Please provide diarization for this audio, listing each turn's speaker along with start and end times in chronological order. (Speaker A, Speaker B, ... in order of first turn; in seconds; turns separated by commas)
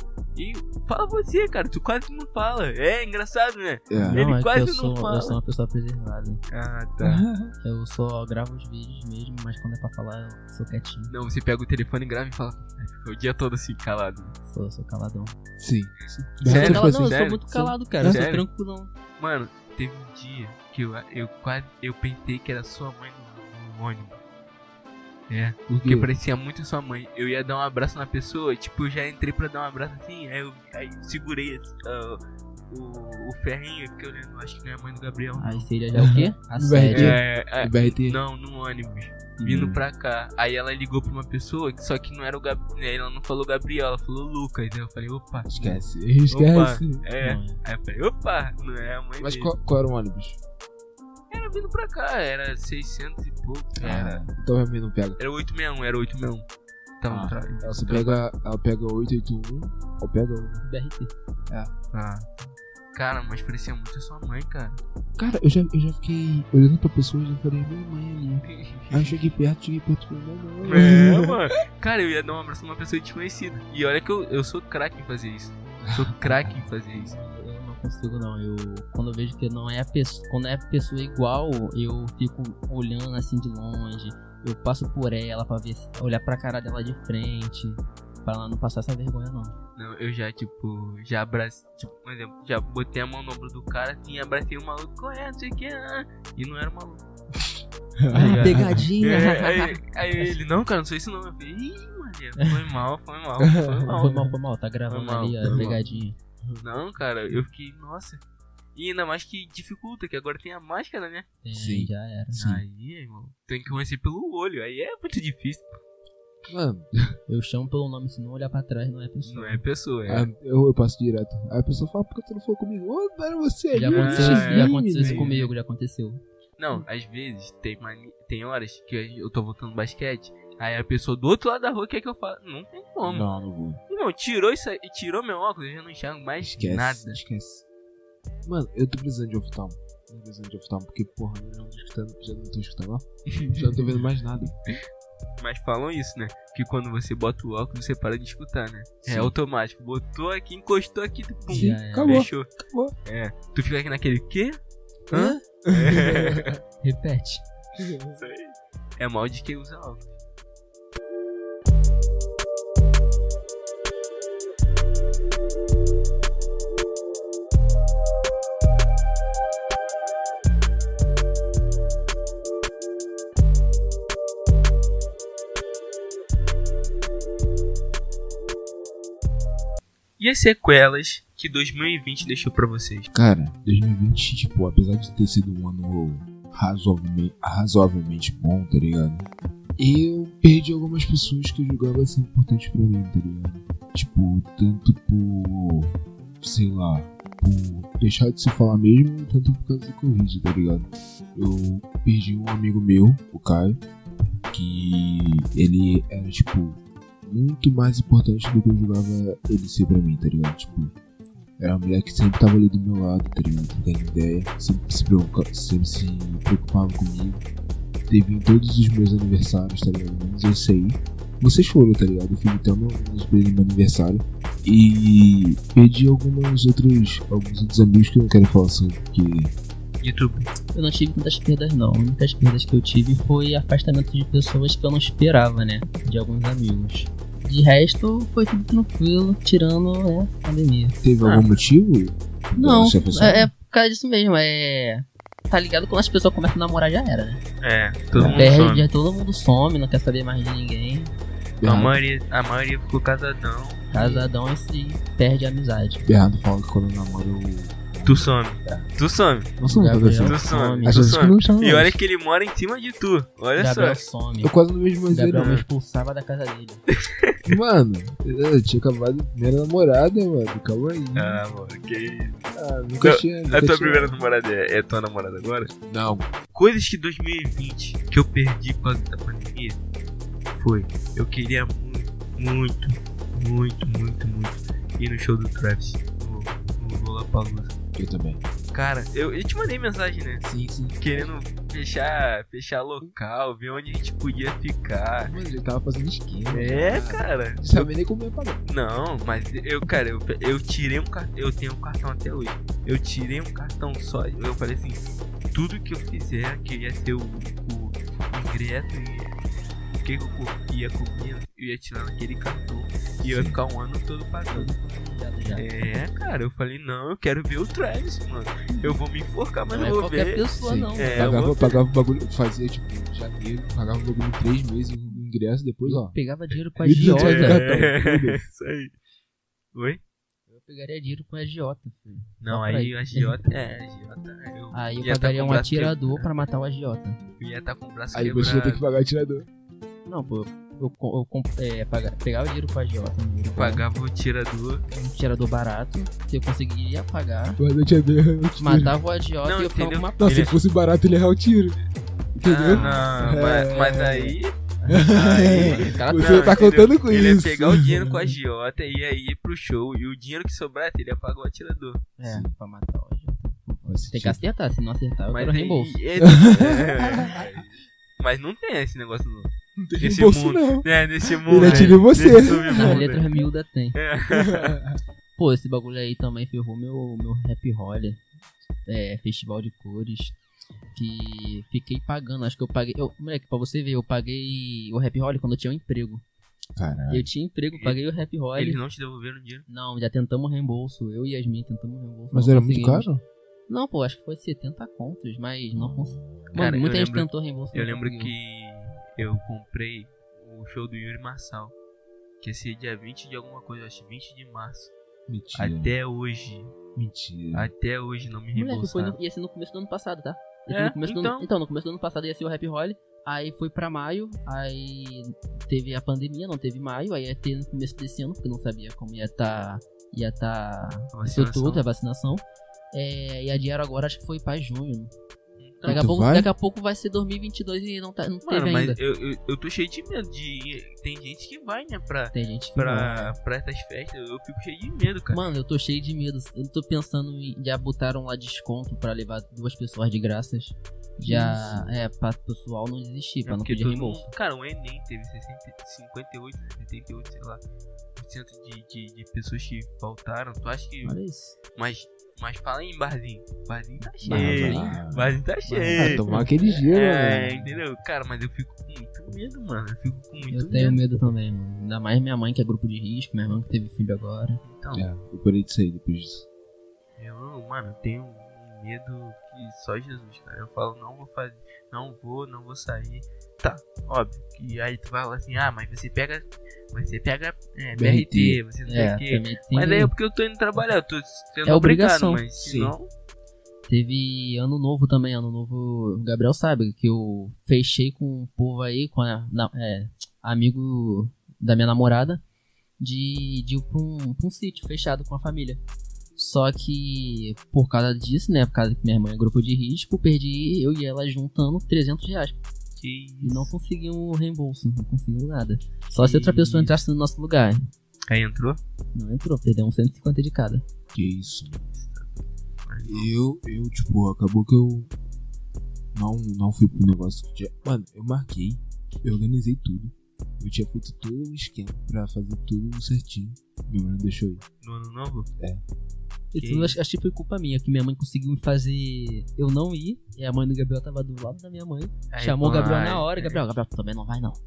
Speaker A: 0.3-5.4, Speaker B: 3.9-4.2, Speaker C: 4.1-6.4, Speaker A: 6.5-7.2, Speaker B: 7.0-7.5, Speaker C: 7.6-11.1, Speaker A: 11.1-14.3, Speaker C: 14.4-15.3, Speaker B: 15.6-18.2, Speaker A: 16.4-18.4, Speaker C: 16.4-18.9, Speaker A: 19.2-24.2, Speaker A: 25.3-32.2, Speaker B: 25.7-26.1, Speaker A: 32.7-35.7, Speaker C: 35.4-37.2, Speaker B: 36.0-38.2, Speaker A: 36.9-45.5, Speaker B: 39.4-39.8, Speaker B: 45.5-47.0, Speaker A: 46.3-49.5, Speaker C: 47.2-47.6, Speaker B: 49.2-50.4, Speaker A: 51.3-54.2, Speaker B: 53.8-55.2, Speaker A: 55.2-56.4, Speaker A: 57.0-58.2, Speaker B: 57.1-60.6, Speaker C: 60.6-61.1, Speaker B: 61.5-61.7, Speaker A: 61.9-64.8, Speaker B: 65.2-71.3, Speaker A: 68.5-69.2, Speaker A: 70.6-77.2, Speaker B: 75.8-76.7, Speaker C: 76.9-89.5, Speaker A: 89.8-97.0, Speaker B: 98.0-98.9, Speaker C: 98.1-100.3, Speaker A: 98.1-104.3, Speaker B: 103.5-104.2, Speaker C: 103.9-106.2, Speaker A: 104.9-105.8, Speaker B: 105.4-106.6, Speaker A: 106.6-108.2, Speaker A: 108.7-111.3, Speaker C: 111.4-112.4, Speaker B: 111.5-112.6, Speaker A: 112.3-115.8, Speaker B: 116.5-117.2, Speaker C: 117.3-119.6, Speaker A: 119.2-120.3, Speaker B: 120.1-125.3, Speaker C: 123.7-126.2, Speaker A: 123.9-125.5, Speaker A: 126.6-133.3, Speaker B: 133.0-133.8, Speaker A: 133.9-137.2, Speaker B: 136.4-137.6, Speaker B: 138.4-144.6, Speaker A: 143.3-143.7, Speaker A: 145.4-152.5, Speaker B: 149.0-149.3, Speaker B: 151.5-152.9, Speaker C: 151.5-152.2, Speaker A: 153.1-156.6, Speaker B: 155.1-156.6, Speaker C: 156.8-157.4, Speaker B: 157.8-158.2, Speaker A: 158.1-160.1, Speaker A: 180.2-183.1, Speaker B: 183.1-203.8, Speaker B: 204.5-210.9, Speaker B: 211.6-217.4, Speaker B: 218.1-229.5, Speaker A: 230.0-230.5, Speaker C: 230.7-241.0, Speaker B: 241.0-243.5, Speaker A: 241.2-241.6, Speaker C: 242.6-247.4, Speaker A: 247.6-248.9, Speaker B: 248.1-248.5, Speaker C: 248.3-251.1, Speaker B: 251.6-252.0, Speaker A: 251.6-254.3, Speaker C: 253.9-256.1, Speaker B: 256.0-258.9, Speaker A: 258.0-259.5, Speaker B: 259.6-262.0, Speaker C: 259.7-261.2, Speaker A: 260.2-264.0, Speaker C: 263.6-264.5, Speaker B: 264.4-265.6, Speaker C: 265.1-266.8, Speaker A: 265.4-265.6, Speaker A: 267.1-267.3, Speaker B: 267.4-271.4, Speaker A: 271.1-272.4, Speaker B: 272.5-274.1, Speaker A: 273.0-275.7, Speaker B: 275.8-276.3, Speaker A: 276.5-279.8, Speaker A: 280.5-287.7, Speaker B: 287.9-288.4, Speaker A: 288.7-290.4, Speaker B: 290.4-291.3, Speaker A: 291.0-295.3, Speaker B: 295.2-298.6, Speaker A: 296.5-297.9, Speaker A: 298.6-309.4, Speaker A: 309.9-314.7, Speaker B: 313.2-313.6, Speaker C: 314.5-316.0, Speaker A: 315.5-320.4, Speaker C: 319.7-321.4, Speaker B: 320.6-326.1, Speaker A: 320.9-321.8, Speaker C: 325.8-327.7, Speaker B: 326.8-328.4, Speaker A: 326.9-328.9, Speaker A: 329.7-330.0, Speaker C: 330.5-333.3, Speaker A: 332.4-336.3, Speaker C: 334.7-337.2, Speaker A: 337.4-338.8, Speaker B: 338.1-339.5, Speaker C: 340.1-343.8, Speaker A: 343.6-344.8, Speaker C: 344.9-347.6, Speaker B: 347.6-349.0, Speaker C: 348.6-350.3, Speaker A: 349.4-350.5, Speaker B: 350.2-351.8, Speaker B: 352.3-354.4, Speaker A: 352.4-354.5, Speaker C: 352.7-353.1, Speaker C: 354.8-356.6, Speaker B: 354.9-358.3, Speaker A: 355.0-362.1, Speaker C: 362.2-366.0, Speaker B: 362.2-362.5, Speaker B: 363.9-364.4, Speaker A: 365.3-373.3, Speaker B: 366.2-367.5, Speaker B: 369.8-373.1, Speaker C: 371.6-374.0, Speaker A: 373.9-374.8, Speaker B: 374.3-375.0, Speaker C: 375.4-378.2, Speaker C: 378.9-380.4, Speaker C: 380.9-386.2, Speaker B: 386.8-387.3, Speaker C: 387.1-388.8, Speaker A: 388.6-389.6, Speaker C: 389.7-393.1, Speaker B: 392.3-393.2, Speaker C: 393.7-398.3, Speaker B: 395.7-396.6, Speaker A: 396.5-401.7, Speaker A: 402.4-404.9, Speaker B: 405.3-405.9, Speaker A: 405.5-406.8, Speaker B: 406.9-407.7, Speaker A: 407.5-409.2, Speaker C: 408.5-425.1, Speaker A: 410.7-411.5, Speaker A: 421.1-421.8, Speaker A: 425.6-426.0, Speaker C: 425.8-429.0, Speaker B: 425.9-426.5, Speaker A: 428.4-435.4, Speaker C: 432.3-433.3, Speaker C: 435.3-444.3, Speaker B: 441.2-441.9, Speaker A: 443.4-447.6, Speaker A: 448.1-451.2, Speaker C: 451.0-451.6, Speaker A: 451.7-456.2, Speaker C: 454.2-455.0, Speaker B: 454.3-455.4, Speaker C: 455.6-456.5, Speaker B: 455.9-457.7, Speaker A: 456.8-461.0, Speaker C: 460.5-464.6, Speaker A: 464.6-465.0, Speaker B: 464.9-466.5, Speaker A: 467.2-483.1, Speaker B: 477.9-478.6, Speaker C: 478.9-480.1, Speaker C: 481.6-482.4, Speaker B: 482.6-482.9, Speaker C: 483.9-492.4, Speaker C: 493.0-495.8, Speaker C: 496.4-502.6, Speaker A: 503.0-503.7, Speaker C: 503.4-507.8, Speaker A: 506.1-507.0, Speaker A: 508.3-508.8, Speaker C: 509.1-510.8, Speaker B: 511.1-511.9, Speaker A: 511.9-513.3, Speaker B: 513.0-515.1, Speaker B: 516.1-524.6, Speaker A: 524.8-525.5, Speaker C: 526.5-534.6, Speaker A: 526.6-527.0, Speaker A: 532.3-533.6